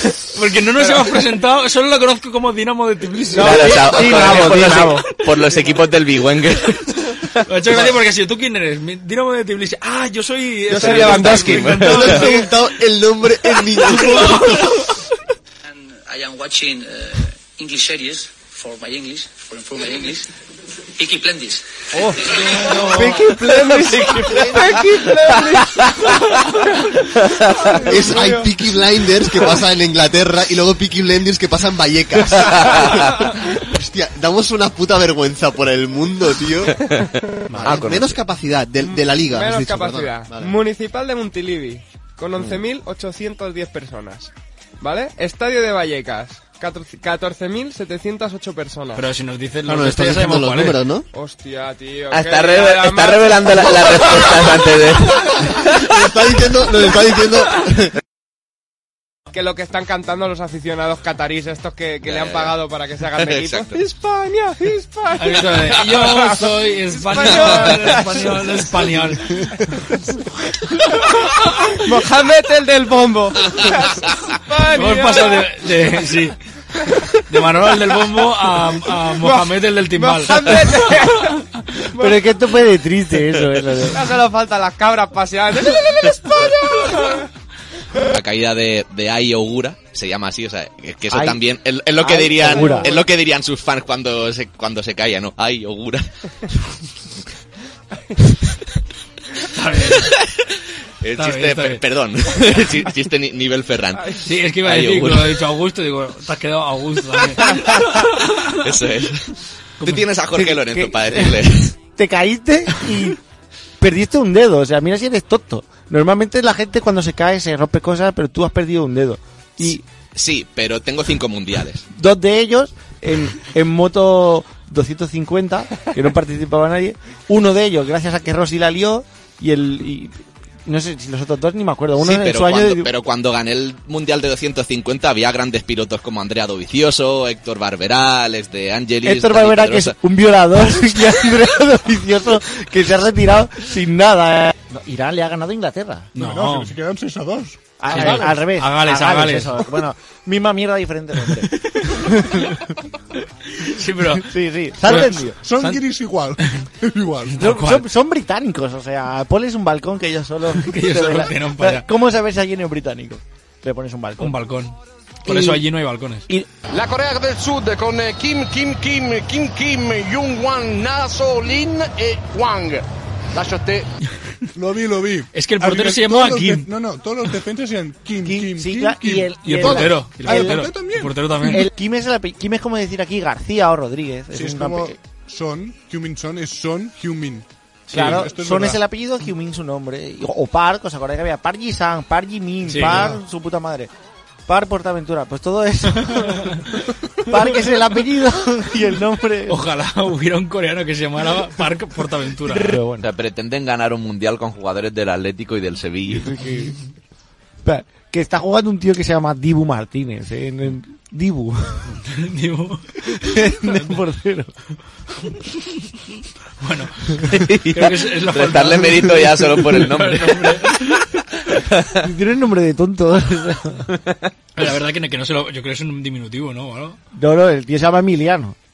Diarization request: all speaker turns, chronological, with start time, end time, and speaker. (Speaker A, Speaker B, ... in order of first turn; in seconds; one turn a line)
Speaker A: 0.3-4.4
Speaker B: 3.3-5.0
Speaker C: 3.3-7.9
Speaker A: 7.4-12.5
Speaker D: 10.8-11.8
Speaker C: 10.8-12.1
Speaker E: 11.7-14.9
Speaker A: 13.8-14.5
Speaker F: 15.7-20.3
Speaker F: 21.0-22.0
Speaker B: 22.7-25.1
Speaker D: 22.7-23.0
Speaker C: 23.3-26.3
Speaker E: 24.2-24.7
Speaker D: 24.5-25.5
Speaker C: 27.1-27.7
Speaker E: 27.7-36.8
Speaker D: 28.1-28.4
Speaker C: 32.3-33.1
Speaker A: 37.5-37.8
Speaker E: 37.5-40.5
Speaker C: 37.6-38.1
Speaker D: 38.8-49.0
Speaker A: 48.9-50.8
Speaker E: 49.6-51.1
Speaker D: 51.1-53.9
Speaker C: 52.1-55.9
Speaker E: 55.5-57.9
Speaker D: 59.3-68.6
Speaker C: 62.0-62.6
Speaker C: 63.1-63.8
Speaker A: 65.2-69.5
Speaker D: 71.7-75.5
Speaker A: 74.7-76.3
Speaker A: 77.3-81.4
Speaker D: 79.1-81.4
Speaker D: 81.9-82.3
Speaker B: 82.0-84.0
Speaker D: 83.9-87.2
Speaker C: 88.1-96.1
Speaker B: 91.1-91.4
Speaker B: 92.0-92.9
Speaker A: 99.5-100.1
Speaker C: 101.0-105.4
Speaker A: 101.2-101.8
Speaker A: 104.2-108.6
Speaker C: 108.6-109.3
Speaker A: 109.8-110.0
Speaker C: 109.8-111.7
Speaker B: 110.3-113.2
Speaker B: 113.8-119.8
Speaker C: 119.6-121.8
Speaker B: 121.9-132.9
Speaker C: 132.0-139.9
Speaker B: 139.0-146.1
Speaker A: 146.2-146.8
Speaker G: 146.2-148.1
Speaker B: 147.8-152.5
Speaker A: 147.9-149.6
Speaker A: 151.7-152.1
Speaker A: 153.5-154.3
Speaker B: 154.2-155.4
Speaker A: 154.8-155.8
Speaker G: 154.9-157.5
Speaker A: 157.3-157.9
Speaker B: 157.4-164.3
Speaker A: 160.5-161.8
Speaker A: 164.2-166.3
Speaker B: 165.3-165.6
Speaker H: 166.7-173.9
Speaker G: 174.5-181.5
Speaker A: 175.3-176.7
Speaker B: 178.2-180.8
Speaker A: 179.4-181.7
Speaker B: 181.5-184.9
Speaker G: 184.3-188.8
Speaker A: 187.9-188.3
Speaker B: 187.9-193.9
Speaker A: 192.7-193.2
Speaker B: 194.5-196.7
Speaker B: 197.2-199.6
Speaker A: 199.5-202.8
Speaker B: 202.5-203.1
Speaker C: 203.0-206.4
Speaker B: 206.1-206.7
Speaker B: 207.6-211.8
Speaker A: 212.0-213.9
Speaker B: 213.2-214.5
Speaker A: 216.6-221.2
Speaker C: 217.3-220.7
Speaker C: 221.7-222.0
Speaker B: 222.0-223.9
Speaker A: 224.6-227.0
Speaker B: 227.1-228.5